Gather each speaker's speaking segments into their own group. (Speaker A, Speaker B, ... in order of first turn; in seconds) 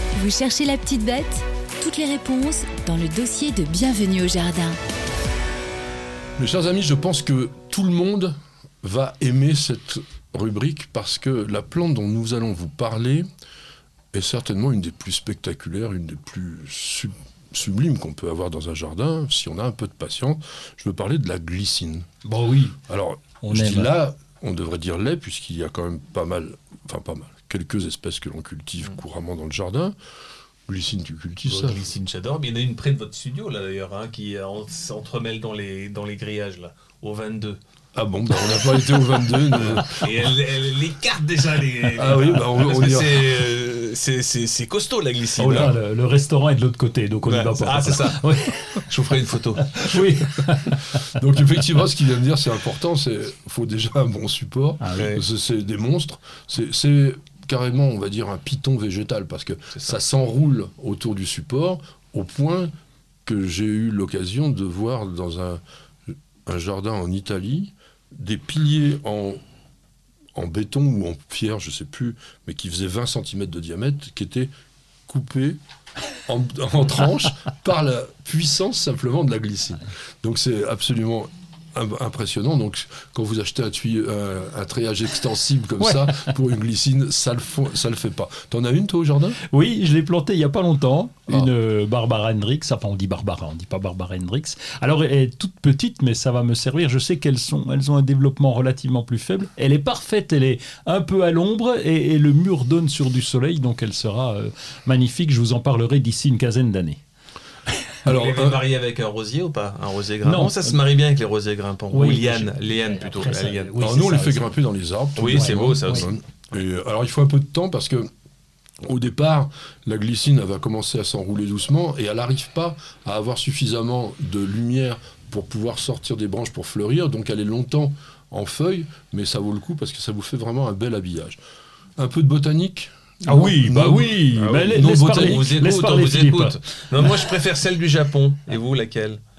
Speaker A: 0.2-4.8
Speaker B: 6.4-13.3, 14.1-22.1, 22.9-29.9, 30.7-31.9, 38.0-40.0, 41.9-43.3, 51.1-62.7, 63.2-65.6, 66.5-69.4, 70.3-74.5, 75.1-75.6, 76.3-89.4, 108.0-108.6, 113.8-118.1, 118.8-131.4, 132.0-135.6
Speaker C: 22.2-22.8, 23.4-24.0, 45.4-48.9, 49.4-51.2, 54.8-55.2, 85.8-86.3, 89.4-107.0, 110.2-110.8, 111.9-114.6, 115.3-116.1, 133.2-137.3
Speaker D: 31.5-37.6, 38.5-38.9, 39.5-45.7, 47.2-49.8, 55.0-55.2, 108.1-113.8, 115.2-116.1, 134.3-139.2